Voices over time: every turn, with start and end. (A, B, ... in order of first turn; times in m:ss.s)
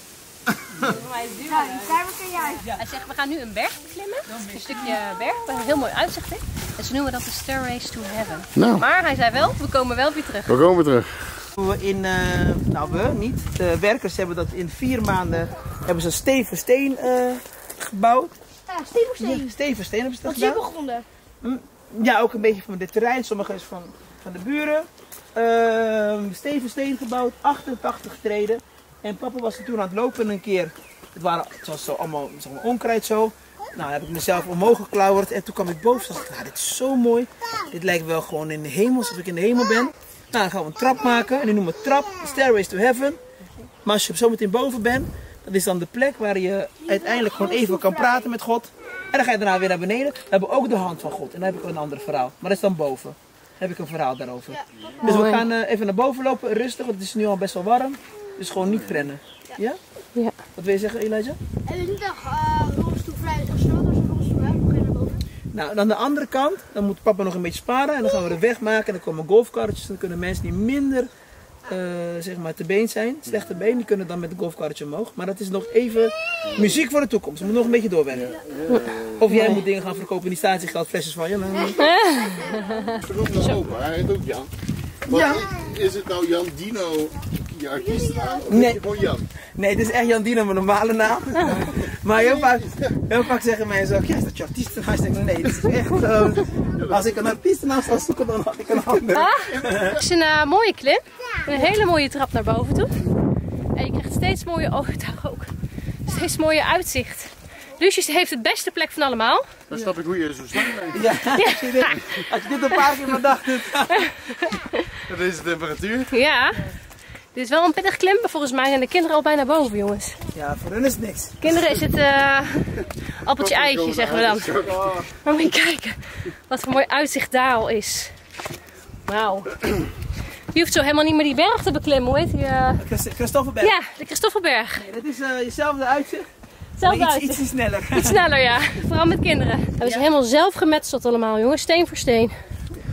0:00.5-0:00.9 A
0:00.8-0:02.0 B
0:01.4-0:02.7 C
0:02.6-0:02.8 D
0:02.7-0:10.6 B
0:04.2-0:05.0 D
0:08.6-0:08.8 A
0:10.5-0:11.3 A
0:11.6-0:18.4 D
0:18.7-0:19.5 C
0:19.2-0:20.6 D
0:20.2-0:21.0 C
0:21.4-0:43.2 D
0:43.8-0:59.8 D
0:46.9-0:48.3 C
0:54.5-0:55.2 C
0:55.0-0:55.4 B
1:00.6-1:01.4 D
1:01.6-1:05.2 C
1:05.5-1:11.1 D
1:11.6-1:18.3 D
1:16.5-1:16.7 A
1:18.1-1:19.3 A
1:18.7-1:19.6 B
1:19.2-1:21.9 D
1:21.6-1:23.0 C
1:21.8-1:23.0 B
1:23.0-1:24.5 A
1:25.1-1:25.5 D
1:25.1-1:29.3 A
1:27.8-1:28.5 C
1:28.4-1:28.8 D
1:29.5-1:39.9 D
1:31.4-1:33.0 A
1:36.1-1:37.3 A
1:39.1-1:42.9 B
1:39.4-1:40.0 A
1:43.7-1:45.5 B
1:46.0-1:49.5 B
1:49.7-1:51.2 A
1:50.9-1:54.1 D
1:51.3-1:52.0 B
1:53.9-1:54.9 B
1:55.0-1:56.1 A
1:56.1-1:56.6 B
1:57.3-2:00.1 B
2:00.3-2:01.5 D
2:01.4-2:04.7 B
2:03.4-2:05.1 A
2:05.2-2:08.1 B
2:09.0-2:09.5 B
2:10.5-2:12.8 B
2:12.8-2:13.8 D
2:13.6-2:14.9 B
2:14.8-2:16.3 D
2:16.8-2:22.4 B
2:16.8-2:18.2 D
2:19.8-2:20.1 D